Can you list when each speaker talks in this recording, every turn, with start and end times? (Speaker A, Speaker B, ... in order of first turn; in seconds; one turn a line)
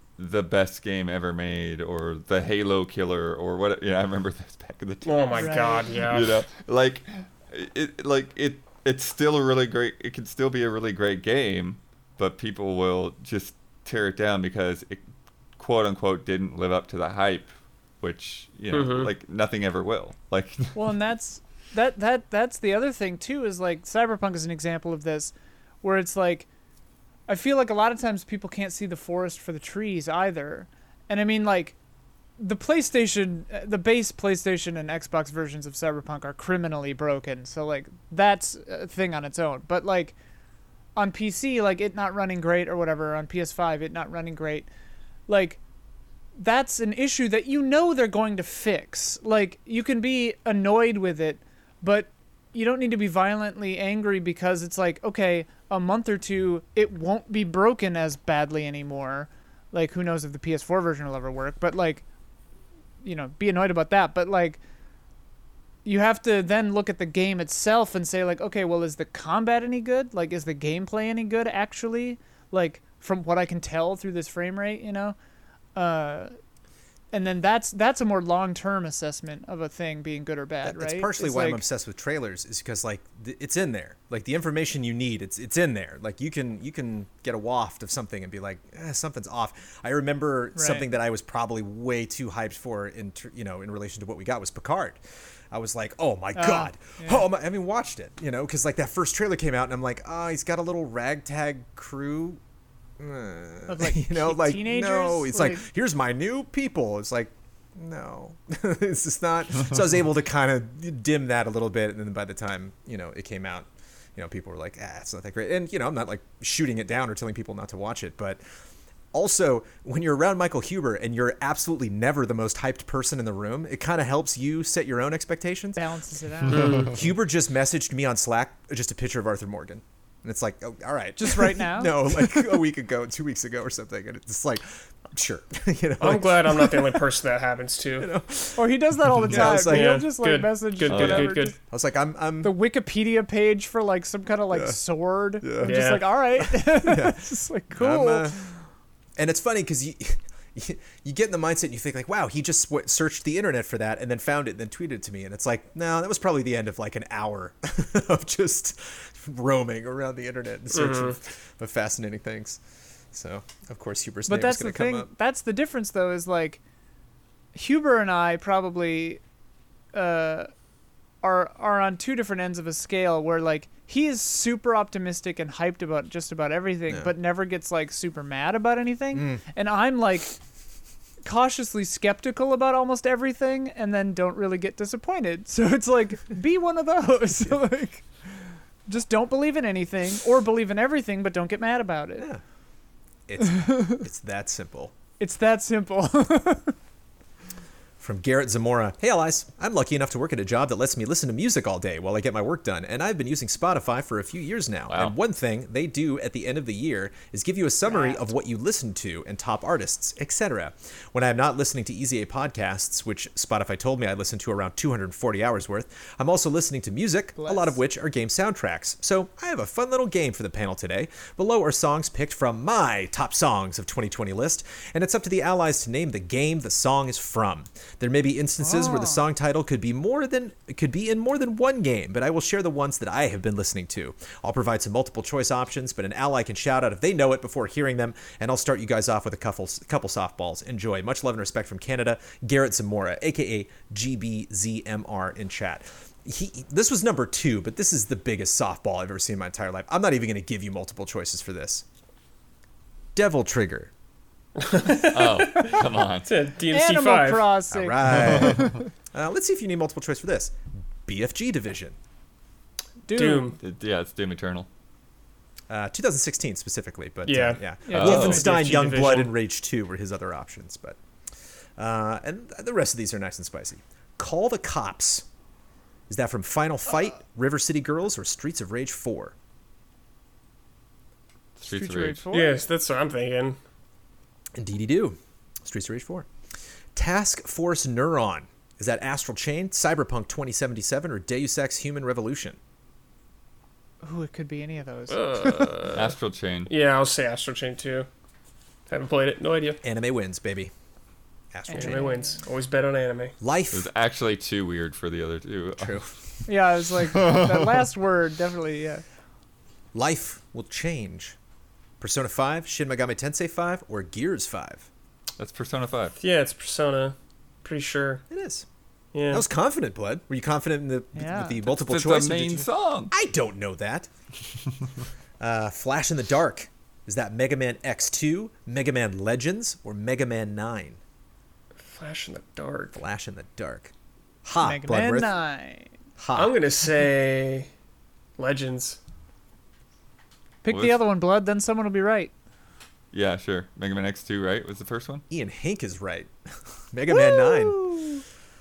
Speaker A: 0.2-15.0
Speaker B: 5.0-6.4
Speaker C: 5.3-6.0
Speaker A: 15.6-17.5
Speaker A: 18.0-20.8
Speaker B: 18.7-19.1
Speaker C: 20.7-26.5
Speaker C: 27.3-31.8
Speaker C: 32.4-40.1
Speaker C: 41.0-44.7
Speaker C: 45.3-45.6
Speaker C: 46.4-62.0
Speaker C: 63.0-64.6
Speaker C: 65.8-75.2
Speaker C: 75.7-76.3
Speaker C: 77.1-81.6
Speaker D: 80.6-95.0
Speaker C: 90.5-90.9
Speaker D: 95.5-102.4
Speaker C: 96.3-97.2
Speaker D: 103.0-118.4
Speaker C: 103.7-105.6
Speaker D: 119.1-125.8
Speaker C: 125.8-126.9
Speaker B: 126.5-126.9
Speaker D: 126.6-137.1
Speaker C: 131.2-132.4
Speaker B: 136.0-138.1
Speaker D: 138.0-140.1
Speaker C: 138.6-141.6
Speaker B: 139.3-141.5
Speaker A: 140.9-141.3
Speaker D: 141.7-142.5
Speaker C: 142.4-148.4
Speaker D: 144.5-144.8
Speaker D: 145.4-148.5
Speaker B: 145.6-146.2
Speaker D: 149.2-162.6
Speaker B: 160.7-161.2
Speaker D: 163.1-165.1
Speaker C: 164.3-166.6
Speaker C: 167.5-169.2
Speaker C: 169.9-170.5
Speaker C: 171.2-180.3
Speaker D: 179.1-179.4
Speaker C: 181.2-188.1
Speaker C: 188.9-192.3
Speaker D: 193.3-194.9
Speaker C: 193.5-193.9
Speaker C: 195.2-196.7
Speaker D: 198.0-251.8
Speaker A: 204.9-205.1
Speaker C: 207.8-208.3
Speaker C: 217.4-217.8
Speaker C: 228.6-229.2
Speaker D: 253.1-253.9
Speaker B: 254.6-257.5
Speaker A: 254.9-256.3
Speaker C: 256.7-258.8
Speaker D: 257.7-261.9
Speaker C: 263.1-263.5
Speaker B: 263.1-263.6
Speaker A: 263.6-264.7
Speaker D: 265.7-271.0
Speaker B: 267.2-269.3
Speaker C: 267.9-268.5
Speaker A: 267.9-268.4
Speaker D: 271.8-275.2
Speaker D: 276.1-279.3
Speaker C: 281.6-282.6
Speaker A: 281.6-282.2
Speaker B: 282.3-283.6
Speaker D: 284.5-286.3
Speaker D: 286.9-292.6
Speaker C: 294.0-295.8
Speaker B: 295.1-296.1
Speaker A: 295.9-296.7
Speaker B: 296.7-298.1
Speaker B: 298.9-299.8
Speaker D: 299.8-300.7
Speaker D: 301.5-302.1
Speaker C: 301.7-302.4
Speaker B: 301.7-303.3
Speaker D: 303.4-303.9
Speaker A: 303.7-306.0
Speaker D: 305.8-306.1
Speaker C: 306.5-309.0
Speaker D: 309.9-311.4
Speaker D: 312.0-314.9
Speaker A: 315.4-316.2
Speaker B: 316.2-318.2
Speaker D: 318.3-318.6
Speaker B: 319.1-319.4
Speaker D: 319.3-324.1
Speaker C: 321.1-321.6
Speaker A: 321.6-323.1
Speaker D: 325.4-331.0
Speaker B: 331.9-333.0
Speaker D: 332.9-333.9
Speaker D: 334.4-335.3
Speaker C: 334.6-335.9
Speaker D: 336.2-336.5
Speaker B: 336.3-337.7
Speaker B: 338.4-339.0
Speaker C: 340.6-342.3
Speaker A: 340.7-341.0
Speaker A: 343.1-345.2
Speaker D: 345.3-346.3
Speaker D: 346.9-347.8
Speaker C: 347.1-348.2